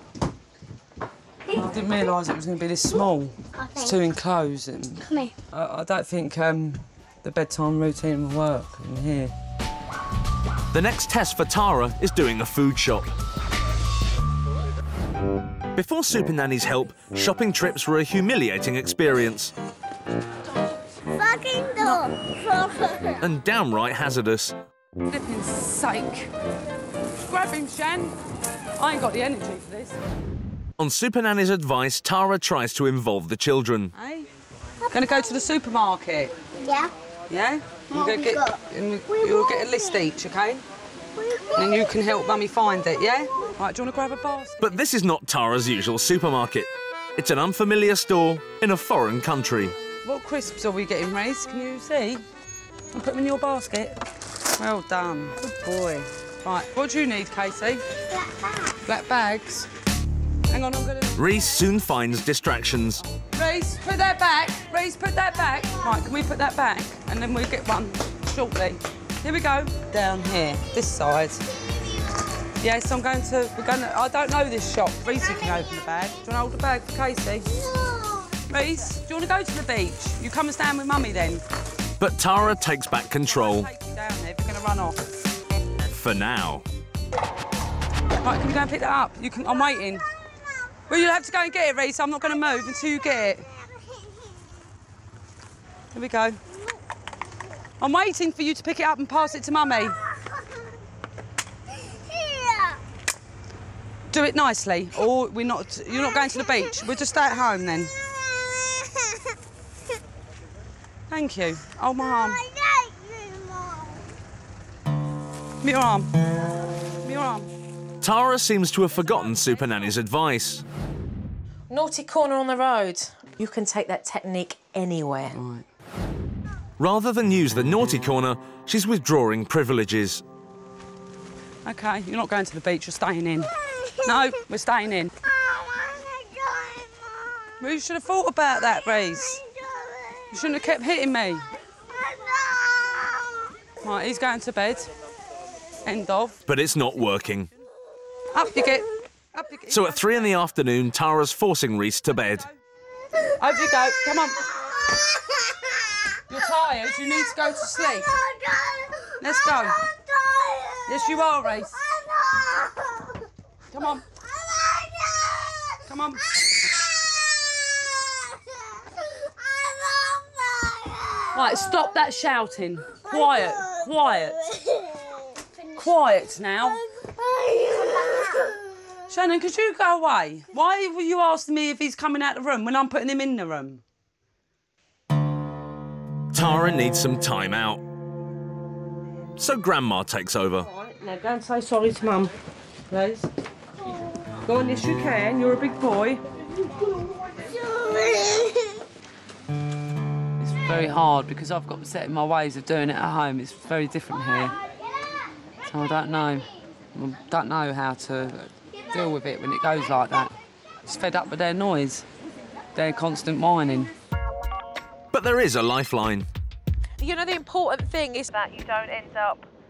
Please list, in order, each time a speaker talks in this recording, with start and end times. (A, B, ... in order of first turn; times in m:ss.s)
0:01.6-0:09.3 A
0:03.6-0:04.0 B
0:05.0-0:05.3 B
0:10.7-0:13.1 C
0:15.8-0:19.5 C
0:21.2-0:22.1 B
0:23.2-0:24.6 C
0:25.1-0:26.3 A
0:27.3-0:28.2 A
0:28.8-0:30.0 A
0:30.8-0:33.9 C
0:34.0-0:34.3 A
0:34.9-0:36.3 A
0:36.6-0:36.9 B
0:37.3-0:40.6 A
0:37.9-0:40.1 B
0:41.2-0:41.8 B
0:41.6-0:44.8 A
0:44.6-0:49.8 C
0:50.0-0:52.2 A
0:52.9-0:54.0 A
0:54.6-0:57.8 A
0:58.9-0:59.7 A
1:00.5-1:01.2 A
1:01.2-1:03.0 C
1:03.3-1:11.4 A
1:12.6-1:17.5 A
1:18.5-1:21.4 A
1:22.0-1:23.7 C
1:23.2-1:25.0 A
1:25.9-1:26.6 C
1:28.2-1:30.0 A
1:30.9-1:33.5 A
1:35.9-1:36.4 A
1:37.8-1:40.0 A
1:44.1-1:47.9 A
1:51.1-1:52.4 A
1:55.6-1:56.1 A
1:57.0-1:57.5 A
1:58.0-2:00.6 C
2:01.7-2:05.4 D
2:05.3-2:05.6 A
2:06.8-2:10.2 C
2:11.6-2:13.5 A
2:14.0-2:15.1 A
2:17.6-2:19.4 A
2:20.3-2:21.5 A
2:23.8-2:24.9 A
2:25.9-2:26.4 A
2:26.5-2:27.5 C
2:28.3-2:30.3 A
2:29.7-2:32.5 C
2:33.4-2:34.5 A
2:36.3-2:38.2 A
2:39.2-2:39.8 A
2:40.9-2:41.8 A
2:43.7-2:44.0 A
2:45.9-2:46.2 A
2:50.9-2:51.2 B
2:51.3-2:54.4 A
2:55.8-2:56.8 A
2:59.1-3:03.8 A
3:06.3-3:07.8 C
3:09.4-3:10.7 C
3:10.6-3:12.3 E
3:12.9-3:13.3 E
3:14.4-3:16.2 E
3:20.4-3:24.6 A
3:25.7-3:30.3 A
3:30.9-3:32.0 A
3:32.8-3:33.9 A
3:35.1-3:36.3 C
3:37.0-3:39.5 D